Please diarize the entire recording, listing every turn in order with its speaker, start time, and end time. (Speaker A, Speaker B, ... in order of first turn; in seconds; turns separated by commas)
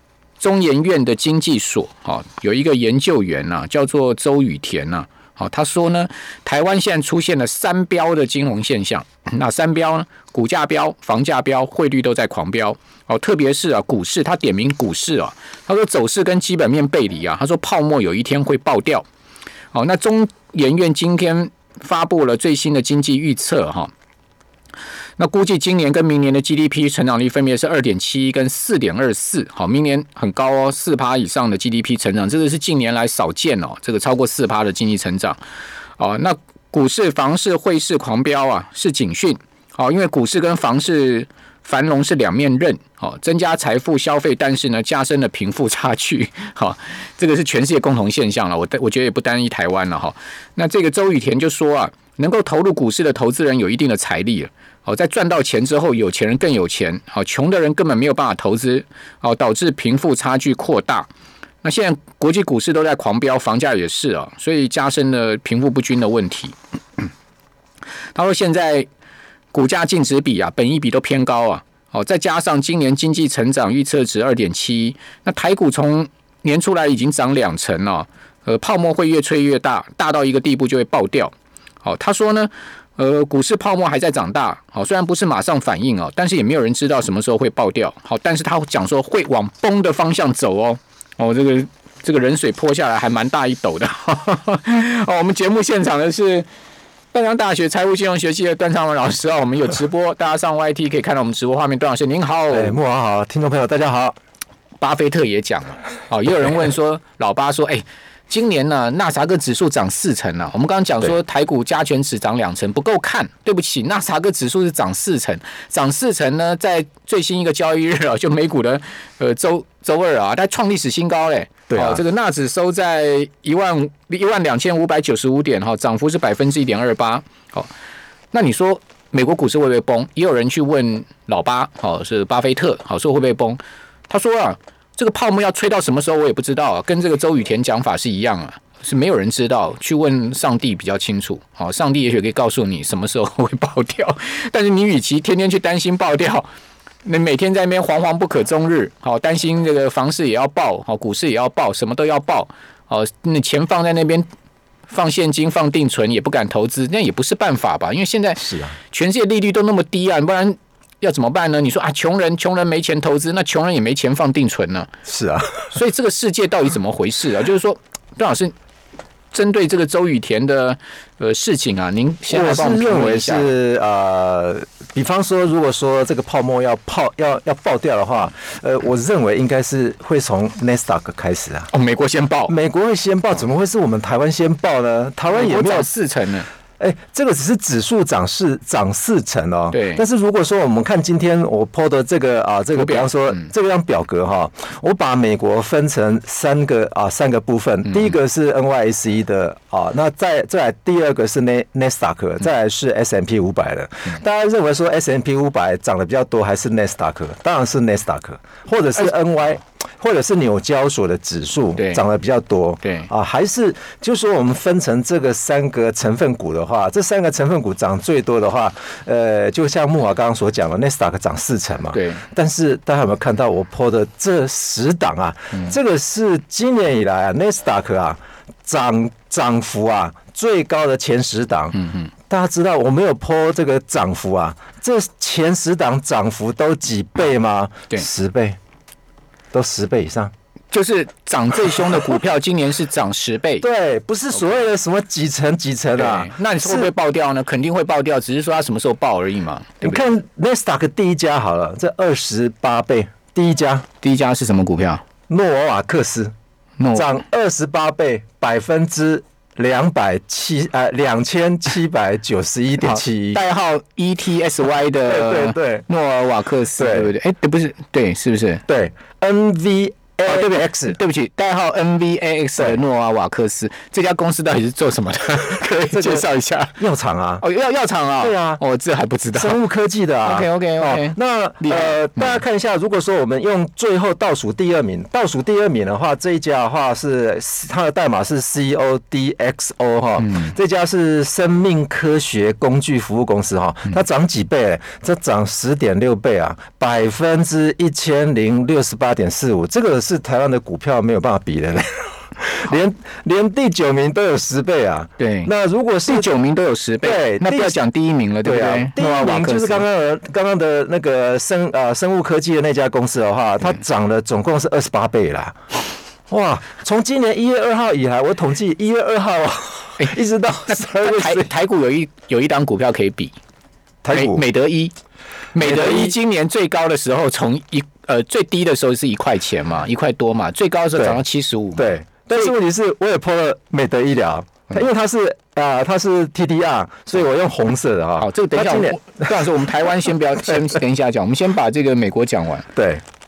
Speaker A: 0.4-19.1, Speaker A: 19.7-23.9, Speaker A: 25.2-35.4, Speaker A: 36.0-61.1, Speaker A: 61.6-67.0, Speaker A: 68.2-68.9, Speaker A: 69.5-96.5, Speaker A: 97.1-102.8, Speaker B: 102.5-104.2, Speaker A: 104.8-127.7, Speaker B: 121.7-122.0, Speaker A: 128.3-146.5, Speaker A: 147.1-154.3, Speaker A: 154.9-164.9, Speaker B: 158.4-158.8, Speaker B: 165.1-165.7, Speaker A: 165.7-168.5, Speaker A: 169.3-173.5, Speaker B: 172.3-181.7, Speaker A: 181.7-182.5, Speaker B: 182.5-185.9, Speaker A: 185.3-186.5, Speaker B: 186.8-238.6, Speaker A: 189.7-190.0, Speaker A: 192.8-193.5, Speaker A: 197.9-198.1, Speaker A: 211.8-212.0, Speaker A: 212.8-213.1, Speaker A: 221.9-222.2, Speaker A: 231.7-232.1, Speaker B: 239.5-240.3, Speaker A: 240.7-243.7, Speaker B: 243.6-246.9, Speaker A: 244.3-244.6, Speaker A: 245.9-250.1, Speaker B: 249.8-253.8, Speaker A: 254.0-255.0, Speaker B: 255.3-256.3, Speaker A: 256.8-257.1, Speaker B: 256.9-263.4, Speaker A: 262.8-268.6, Speaker B: 265.1-265.9, Speaker B: 266.8-267.1, Speaker B: 268.7-271.0, Speaker A: 270.3-276.8, Speaker B: 275.7-277.4, Speaker A: 277.4-279.6, Speaker B: 278.2-278.6, Speaker B: 279.3-306.3, Speaker A: 280.2-282.4, Speaker A: 290.2-290.5, Speaker A: 305.2-305.5, Speaker A: 306.1-309.9, Speaker B: 307.0-307.8, Speaker B: 308.4-315.6, Speaker B: 316.3-321.5, Speaker A: 320.7-323.4, Speaker B: 324.0-324.4, Speaker A: 324.1-324.9, Speaker A: 325.5-332.5, Speaker B: 325.6-326.2, Speaker B: 331.8-339.7, Speaker A: 338.2-342.7, Speaker B: 340.5-340.8, Speaker B: 342.8-343.0